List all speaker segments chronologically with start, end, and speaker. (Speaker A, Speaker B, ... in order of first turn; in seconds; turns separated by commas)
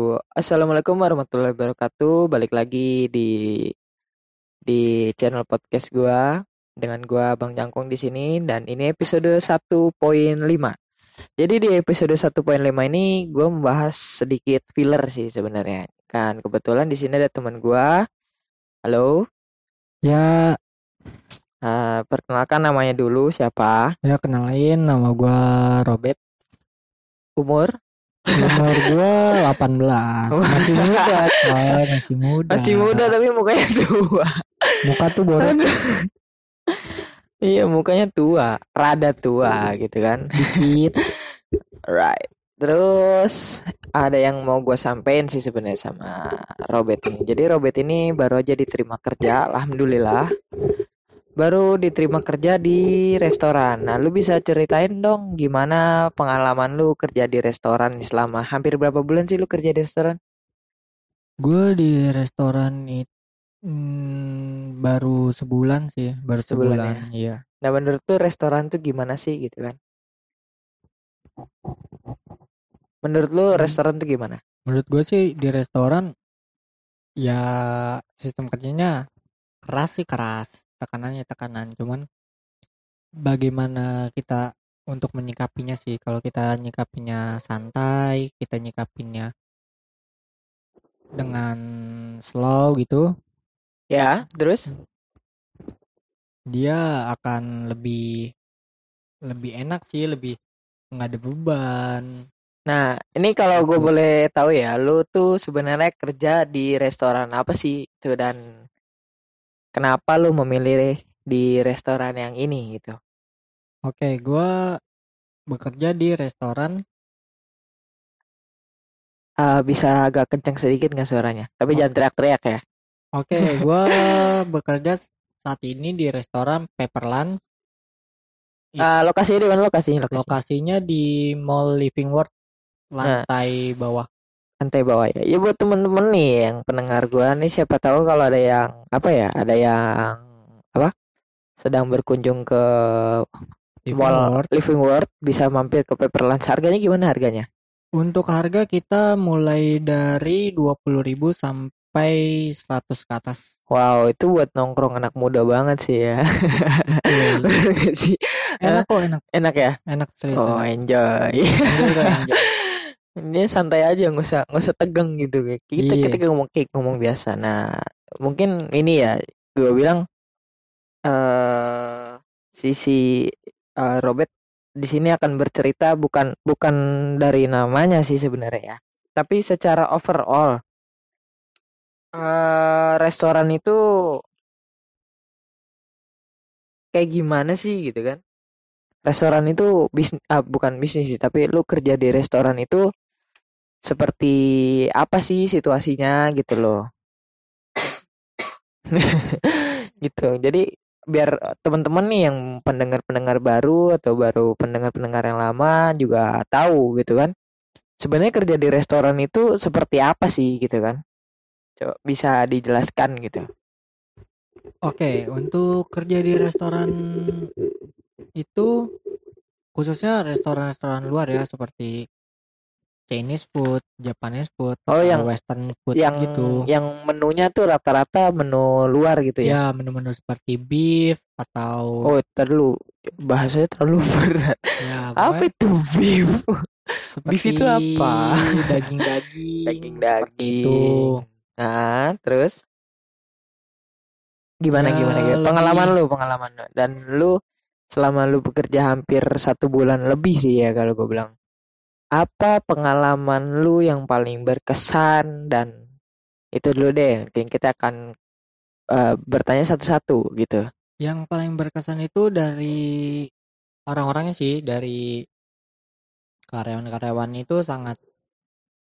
Speaker A: 0.4-3.3, Speaker A: 4.7-6.2, Speaker A: 6.8-10.8, Speaker A: 11.4-17.9, Speaker A: 18.9-19.1, Speaker B: 20.1-20.5, Speaker A: 21.7-23.8, Speaker B: 24.1-26.2, Speaker A: 27.4-27.7, Speaker B: 28.4-33.1, Speaker A: 30.4-31.1, Speaker A: 32.5-34.3, Speaker B: 34.9-35.6, Speaker A: 35.4-35.9, Speaker A: 37.5-40.2, Speaker B: 40.4-41.0, Speaker A: 41.9-43.4, Speaker A: 44.0-46.1, Speaker A: 46.7-50.2, Speaker A: 51.4-60.2, Speaker B: 61.5-63.1, Speaker B: 63.8-67.4, Speaker A: 66.4-67.0, Speaker A: 67.6-69.8, Speaker A: 73.0-74.4, Speaker B: 74.7-76.1, Speaker B: 77.2-78.9, Speaker B: 79.7-82.0, Speaker B: 83.3-89.3, Speaker B: 91.2-91.6, Speaker B: 92.3-93.0, Speaker A: 93.9-94.7, Speaker B: 96.5-98.0, Speaker B: 99.3-100.4, Speaker B: 101.0-102.0, Speaker A: 102.7-108.4, Speaker B: 103.5-103.9, Speaker A: 109.8-113.0, Speaker B: 113.9-114.5, Speaker B: 115.5-116.8, Speaker A: 119.4-122.6, Speaker B: 123.2-127.3, Speaker A: 128.8-130.3, Speaker B: 130.1-132.3, Speaker B: 132.9-134.1, Speaker A: 134.6-140.2, Speaker A: 141.6-143.2, Speaker B: 143.9-144.5, Speaker A: 143.9-147.5, Speaker B: 148.0-153.4, Speaker A: 153.7-158.8, Speaker B: 157.1-157.5, Speaker B: 158.6-159.2, Speaker A: 159.3-159.8, Speaker B: 159.9-160.7, Speaker A: 160.4-161.9, Speaker B: 161.7-162.5, Speaker A: 163.3-167.6, Speaker B: 165.8-166.2, Speaker A: 168.2-170.0, Speaker A: 171.1-173.0, Speaker A: 173.8-174.3, Speaker A: 174.8-180.6, Speaker A: 182.2-183.8, Speaker A: 186.9-188.2, Speaker A: 189.1-192.8, Speaker A: 193.9-194.3, Speaker A: 195.0-196.8, Speaker A: 198.9-200.6, Speaker A: 201.1-207.3, Speaker A: 208.0-211.0, Speaker A: 211.8-213.4, Speaker B: 214.9-216.9, Speaker B: 218.4-218.7, Speaker B: 219.8-221.9, Speaker B: 223.1-226.6, Speaker A: 224.9-225.3, Speaker A: 226.0-229.6, Speaker B: 229.4-232.0, Speaker A: 232.1-232.7, Speaker A: 233.3-234.6, Speaker B: 234.8-235.5, Speaker A: 235.2-236.5, Speaker B: 237.2-241.2, Speaker A: 237.3-238.8, Speaker A: 239.7-240.8, Speaker A: 241.6-242.5, Speaker A: 244.6-247.3, Speaker B: 244.7-245.9, Speaker A: 247.9-251.3, Speaker A: 252.2-255.7, Speaker A: 256.6-258.0, Speaker A: 258.9-260.6, Speaker B: 261.1-262.8, Speaker B: 263.9-265.0, Speaker B: 266.5-268.0